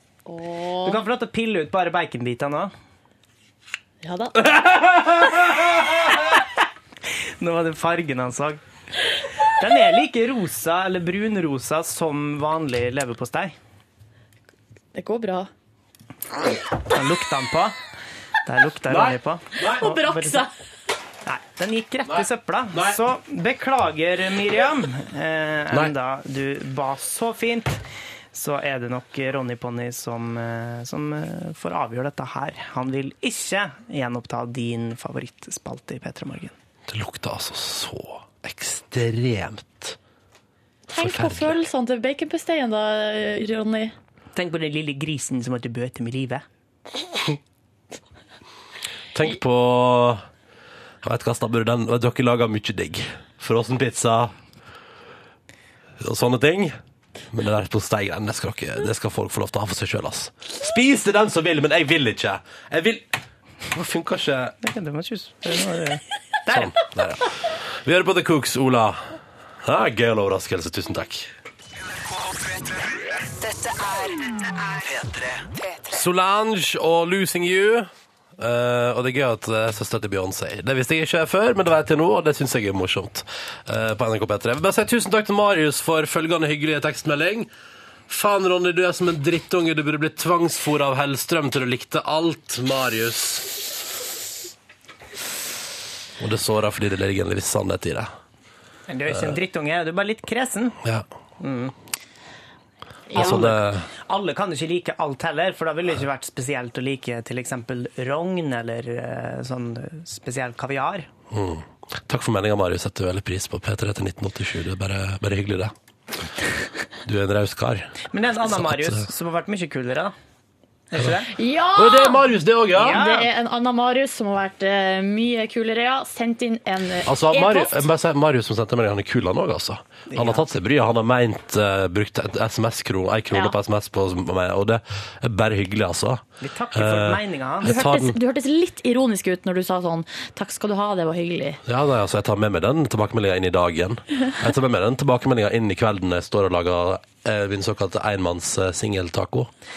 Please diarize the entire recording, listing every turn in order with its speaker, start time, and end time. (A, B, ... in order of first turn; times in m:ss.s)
0:00.3-0:01.0 A
0:00.8-0:02.7 B
0:04.0-0:04.4 A
0:07.4-0:08.6 B
0:09.6-0:13.6 B
0:15.0-0:15.5 A
0:16.9-0:17.8 B
0:18.5-0:20.4 B
0:18.9-0:19.8 C
0:19.7-0:20.5 A
0:21.2-0:27.8 B
0:22.1-0:23.0 C
0:28.3-0:36.5 B
0:36.9-0:40.0 C
0:40.9-0:43.9 A
0:41.0-0:41.6 C
0:44.4-0:46.4 B
0:49.1-0:50.2 C
0:51.0-0:54.3 C
0:56.0-0:56.8 C
0:57.3-1:03.1 C
1:03.7-1:04.6 C
1:04.6-1:06.8 B
1:06.5-1:09.1 C
1:09.6-1:11.3 C
1:12.7-1:15.9 D
1:15.9-1:27.5 C
1:28.1-1:33.8 C
1:36.2-1:38.1 C
1:38.9-1:40.8 B
1:41.4-1:41.7 B
1:43.1-1:43.4 A
1:43.2-1:51.1 B
1:43.2-1:43.9 C
1:51.3-1:55.7 C
1:57.0-1:59.0 C
1:58.1-2:00.1 B
2:00.9-2:01.3 B
2:01.3-2:02.2 A
2:01.8-2:03.0 C
2:02.8-2:03.3 B
2:02.8-2:07.9 A
2:07.1-2:18.2 C
2:10.1-2:10.4 B
2:16.4-2:17.8 B
2:17.6-2:21.6 A
2:21.7-2:29.5 C